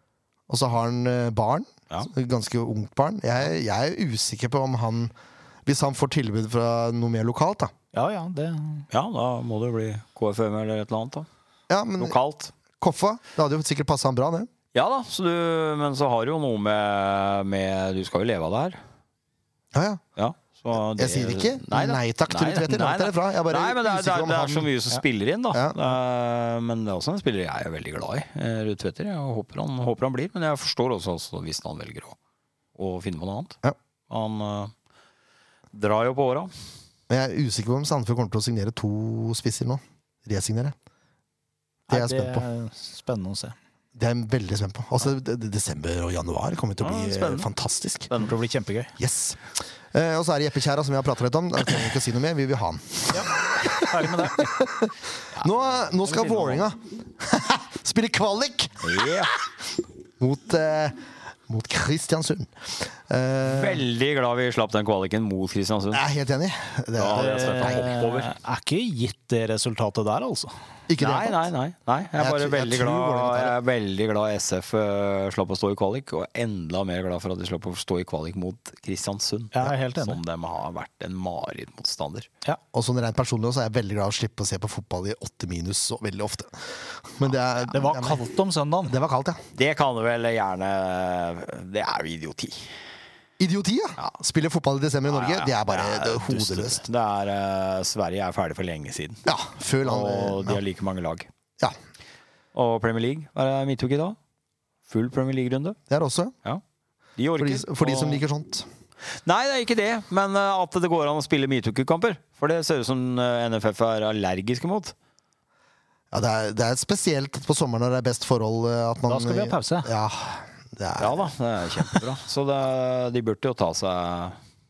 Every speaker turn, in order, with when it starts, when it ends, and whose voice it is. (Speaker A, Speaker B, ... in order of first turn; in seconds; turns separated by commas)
Speaker A: 0.5-5.1, Speaker A: 5.7-7.7, Speaker B: 7.9-8.9, Speaker C: 8.9-11.3, Speaker A: 11.7-12.2, Speaker C: 12.0-12.5, Speaker A: 12.8-14.5, Speaker C: 14.7-18.8, Speaker A: 19.7-20.0, Speaker C: 20.2-32.1, Speaker A: 20.9-24.7, Speaker A: 25.5-26.0, Speaker C: 32.8-34.7, Speaker C: 35.7-36.5, Speaker A: 37.1-40.8, Speaker B: 41.9-43.5, Speaker A: 41.9-42.5, Speaker A: 44.0-48.1, Speaker C: 46.8-47.5, Speaker B: 48.2-48.9, Speaker A: 49.0-59.2, Speaker B: 53.1-54.5, Speaker C: 55.3-56.6, Speaker C: 58.8-59.3, Speaker A: 60.2-63.8, Speaker C: 63.4-66.0, Speaker A: 65.9-67.8, Speaker C: 67.0-68.3, Speaker B: 67.1-70.5, Speaker A: 70.9-71.4, Speaker C: 71.0-82.3, Speaker A: 72.2-73.5, Speaker B: 79.5-80.2, Speaker A: 82.7-88.2, Speaker B: 87.7-89.0, Speaker A: 88.9-89.4, Speaker C: 89.5-92.7, Speaker A: 93.4-96.8, Speaker C: 95.1-99.2, Speaker A: 99.2-100.6, Speaker C: 99.8-101.3, Speaker C: 102.5-104.2, Speaker C: 104.9-105.8, Speaker A: 105.9-106.3, Speaker C: 107.2-108.2, Speaker A: 107.4-108.7, Speaker C: 109.1-114.9, Speaker A: 116.1-121.3, Speaker B: 119.0-119.9, Speaker C: 121.0-124.4